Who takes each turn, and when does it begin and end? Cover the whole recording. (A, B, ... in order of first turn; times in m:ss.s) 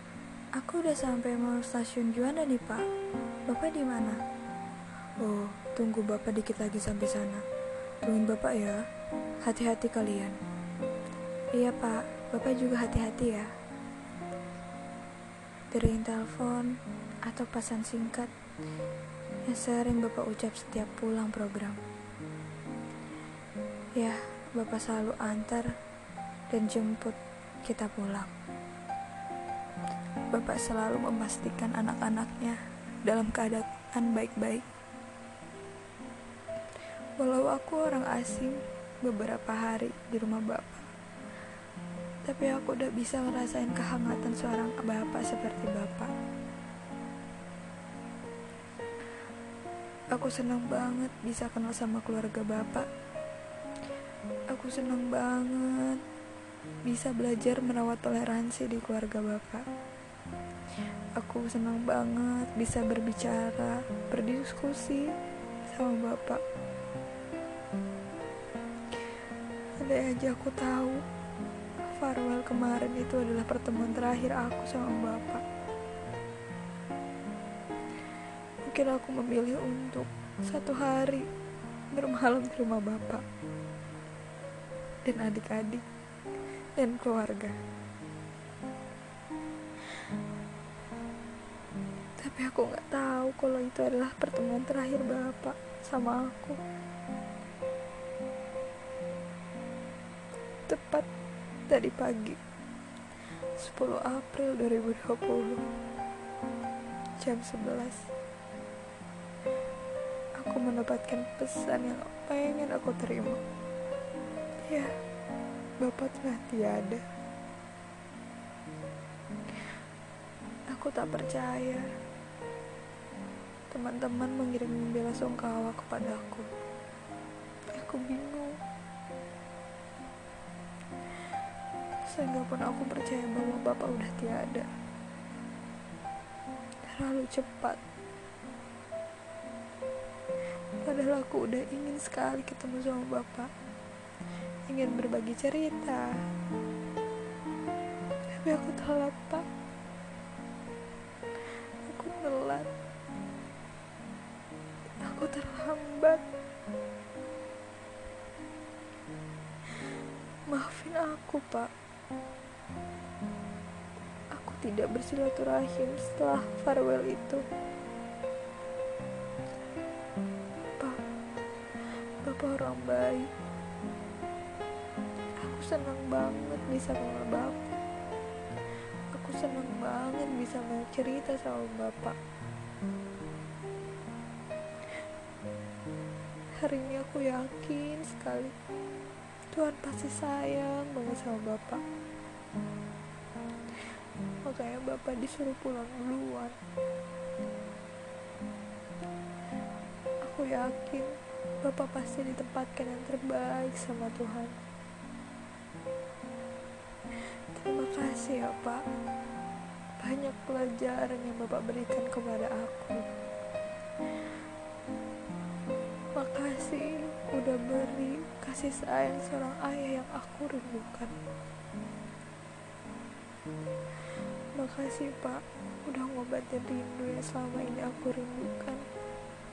0:00.6-0:02.8 A
0:03.4-0:04.2 A
0:05.2-0:07.4 A
0:08.0-0:08.8 A
0:09.4-0:10.4 A
0:11.5-0:13.5 A
0:15.7-0:16.7 A
0:17.2-0:18.3 A
0:19.4-0:21.8 A
0:24.0-0:25.7 A
0:26.5-0:28.3 A
0:30.3-0:34.6 A
0:37.2-0:40.9 A
0:42.2-0:46.1 A
0:50.1-0:52.9 A
0:54.5-0:56.0 A
0:56.9-0:59.6 A
1:01.2-1:05.1 A
1:05.7-1:06.4 A
1:09.8-1:11.0 A
1:11.8-1:15.4 A
1:18.6-1:21.2 A
1:21.9-1:23.2 A
1:25.0-1:25.8 A
1:26.8-1:27.6 A
1:32.2-1:36.6 A
1:40.7-1:41.1 A
1:41.7-1:42.4 A
1:43.6-1:45.6 A
1:47.2-1:48.1 A
1:50.4-1:53.4 A
1:55.8-1:57.0 A
2:00.7-2:01.8 A
2:03.7-2:06.5 A
2:07.7-2:08.5 A
2:12.1-2:14.7 A
2:16.9-2:17.8 A
2:20.8-2:23.5 A
2:24.7-2:26.1 A
2:28.3-2:29.5 A
2:31.8-2:32.7 A
2:35.0-2:36.2 A
2:40.5-2:41.7 A
2:44.3-2:47.4 A
2:52.2-2:53.3 A
2:55.4-2:57.8 A
2:59.1-3:02.2 A
3:06.6-3:08.5 A
3:09.5-3:11.8 A
3:14.4-3:16.6 A
3:20.2-3:24.6 A
3:27.5-3:28.8 A
3:30.0-3:33.0 A
3:36.2-3:41.1 A
3:44.6-3:48.8 A